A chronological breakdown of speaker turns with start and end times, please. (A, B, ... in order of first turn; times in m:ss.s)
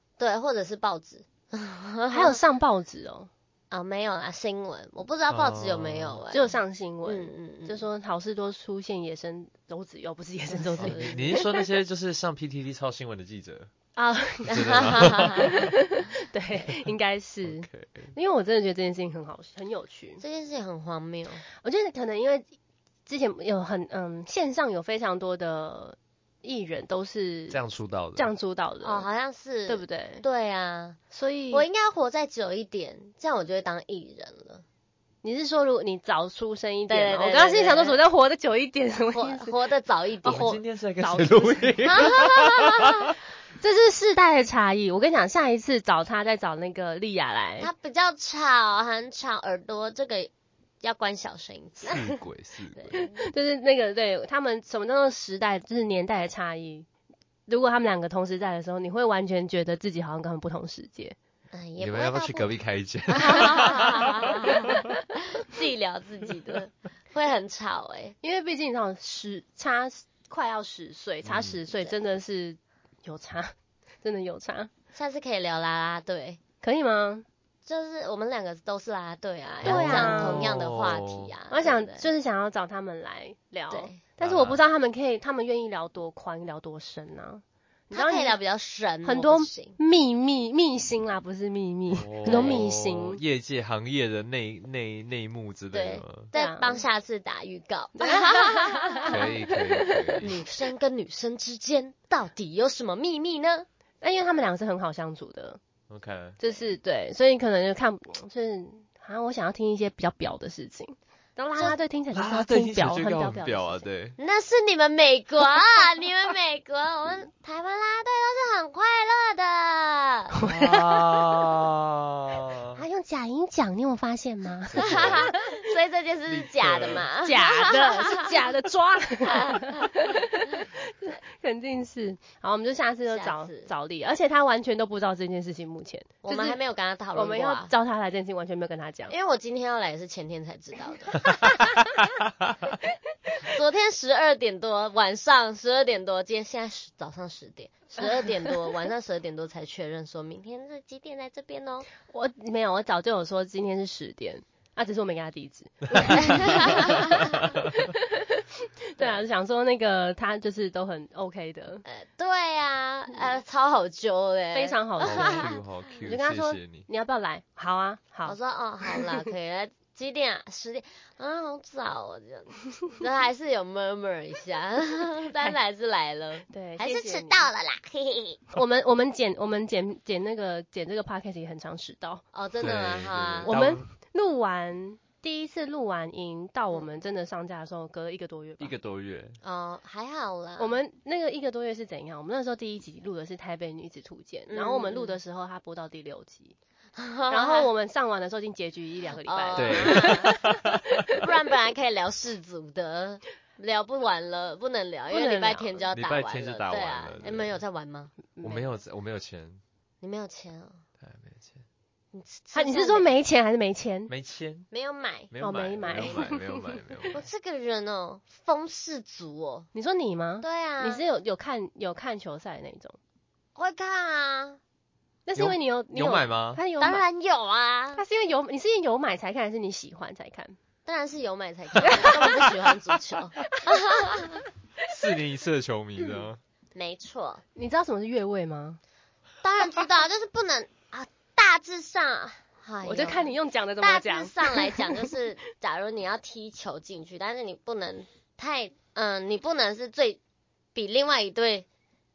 0:00.2-0:02.4 A
0:02.1-0:03.3 B
0:03.7-0:06.5 A
0:05.3-0:06.2 C
0:06.3-0:11.5 B
0:07.0-0:07.8 A
0:10.6-0:11.4 A
0:10.8-0:13.7 C
0:14.0-0:20.2 B
0:14.4-0:15.7 C
0:14.5-0:15.6 A
0:16.6-0:16.9 C
0:17.4-0:18.1 C
0:20.2-0:21.4 A
0:21.6-0:22.5 B
0:23.1-0:27.6 B
0:27.5-0:28.3 C
0:28.2-0:29.1 B
0:28.8-0:31.0 A
0:29.7-0:30.2 B
0:31.1-0:31.7 B
0:31.5-0:34.6 A
0:35.2-0:39.5 B
0:36.9-0:38.0 A
0:39.1-0:40.6 A
0:40.3-0:42.0 B
0:40.3-0:43.1 C
0:41.8-0:43.1 A
0:43.6-0:47.7 B
0:47.6-0:50.3 A
0:50.8-0:52.0 A
0:51.9-0:52.9 C
0:52.7-0:53.2 A
0:52.9-0:56.9 B
0:57.5-1:01.2 B
1:01.5-1:02.6 A
1:01.8-1:04.7 C
1:03.1-1:08.2 A
1:04.6-1:04.9 B
1:08.2-1:14.7 B
1:11.2-1:11.6 C
1:14.9-1:16.4 A
1:16.6-1:17.2 B
1:17.6-1:22.1 A
1:19.6-1:21.3 C
1:19.6-1:20.6 B
1:21.5-1:28.4 B
1:23.7-1:24.0 A
1:24.2-1:24.6 C
1:27.9-1:29.8 A
1:29.0-1:33.2 B
1:31.9-1:36.3 C
1:32.3-1:32.6 A
1:35.7-1:39.2 A
1:36.3-1:36.8 B
1:38.0-1:40.2 B
1:39.0-1:40.4 C
1:40.2-1:43.7 A
1:44.0-1:45.6 B
1:45.9-1:46.4 C
1:46.4-1:53.9 B
1:51.6-1:54.2 C
1:54.2-2:00.3 A
2:00.4-2:01.1 B
2:00.4-2:02.8 C
2:02.8-2:05.4 B
2:04.7-2:05.3 C
2:04.8-2:08.3 A
2:06.3-2:07.1 C
2:07.2-2:16.6 B
2:09.3-2:10.2 A
2:13.1-2:13.7 A
2:16.2-2:17.7 A
2:17.2-2:19.2 B
2:19.1-2:21.3 A
2:22.2-2:22.7 C
2:23.4-2:31.9 A
2:32.1-2:41.8 B
2:36.0-2:37.7 C
2:36.1-2:37.5 A
2:41.8-2:45.6 A
2:44.5-2:49.2 B
2:45.0-2:46.9 C
2:48.3-2:58.4 A
2:56.5-2:57.5 B
2:58.5-3:02.2 B
3:02.3-3:03.5 A
3:02.6-3:03.9 C
3:03.5-3:08.8 B
3:08.6-3:09.4 C
3:09.4-3:10.8 A
3:10.6-3:16.6 B
3:14.5-3:15.2 A
3:17.0-3:17.7 A
3:17.3-3:20.6 B
3:19.3-3:20.4 A
3:19.6-3:21.2 C
3:21.1-3:28.1 A
3:25.1-3:25.8 B
3:25.9-3:27.6 C
3:28.4-3:28.7 B
3:28.4-3:29.6 C
3:30.0-3:30.8 A
3:31.0-3:31.6 C
3:32.1-3:33.1 A
3:32.5-3:34.1 B
3:34.1-3:34.7 C
3:34.7-3:35.3 A
3:35.3-3:37.2 C
3:35.4-3:37.1 B
3:37.1-3:39.7 A
3:39.7-3:43.0 B
3:40.4-3:41.0 A
3:43.6-3:44.6 A
3:45.3-3:47.0 B
3:45.4-3:46.6 C
3:46.8-3:48.0 A
3:48.0-3:50.6 B
3:50.9-3:54.4 A
3:52.2-3:52.5 C
3:54.8-3:56.4 C
3:56.8-3:57.4 A
3:57.6-3:58.8 B
3:59.4-4:10.2 A
4:02.8-4:05.1 B
4:10.8-4:11.7 A